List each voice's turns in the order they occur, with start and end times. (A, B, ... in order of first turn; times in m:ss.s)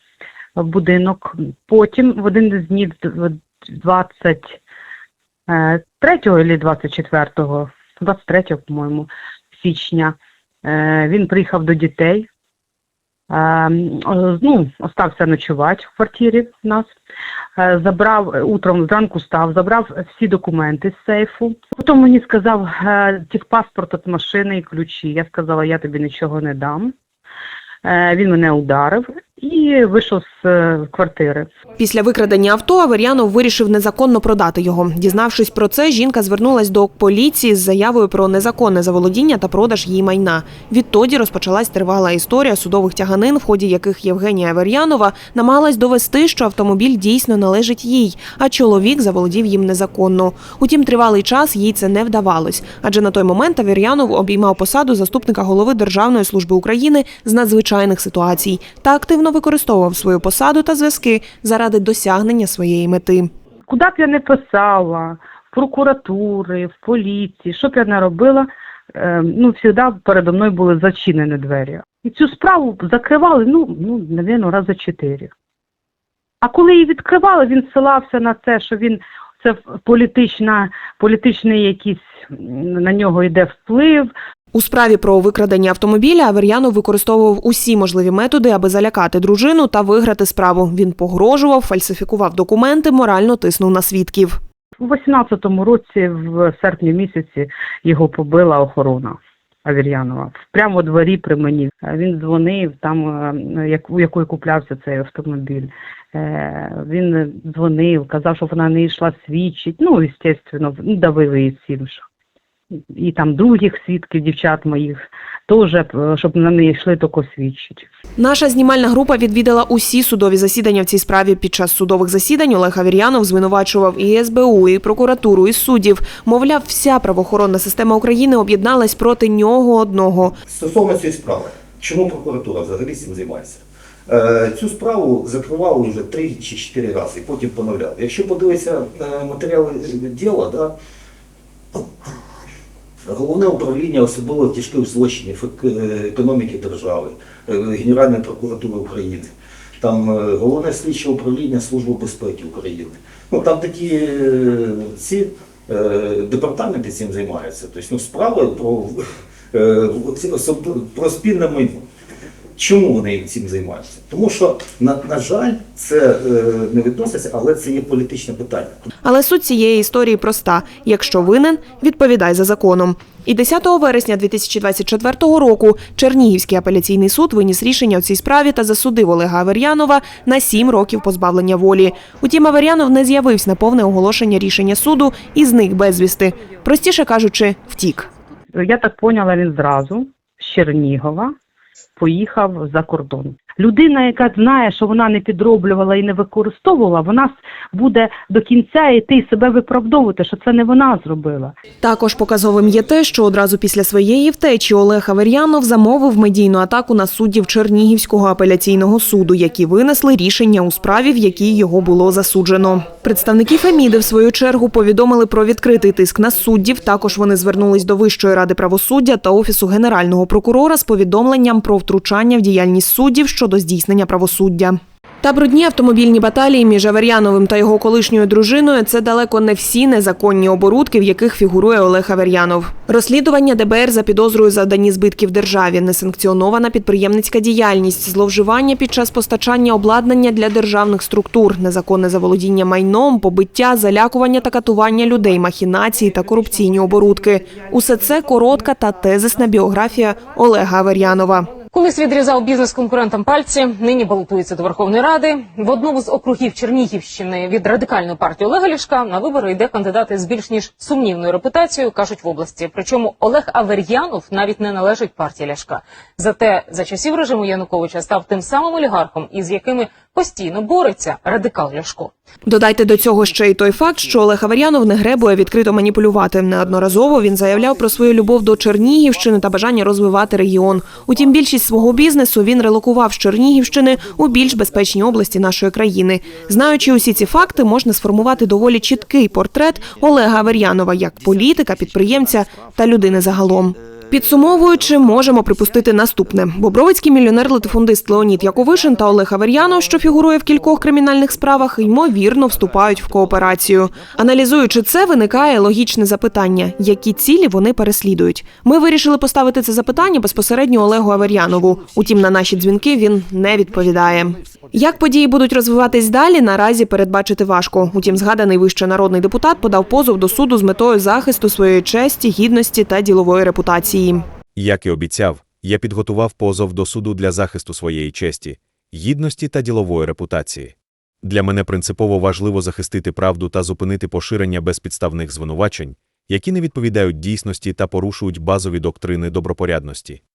0:00.6-0:04.6 A
0:05.5-0:12.3 A
0:13.3-0:16.9 A
0:17.6-0:26.9 A
0:27.8-0:31.5 A
0:31.8-1:03.3 B
1:03.7-1:15.3 A
1:16.4-1:24.1 A
1:24.5-1:34.4 B
1:34.8-1:52.0 A
1:52.9-1:57.9 A
1:58.2-2:10.3 B
2:10.5-2:20.7 C
2:23.0-2:39.0 C
2:39.5-2:41.8 C
2:42.6-2:48.9 C
2:49.0-3:08.1 B
3:08.5-3:11.3 A
3:12.0-3:21.5 A
3:21.8-4:11.5 B
4:11.7-4:32.1 D
4:32.4-5:24.2 B
5:24.6-5:40.2 E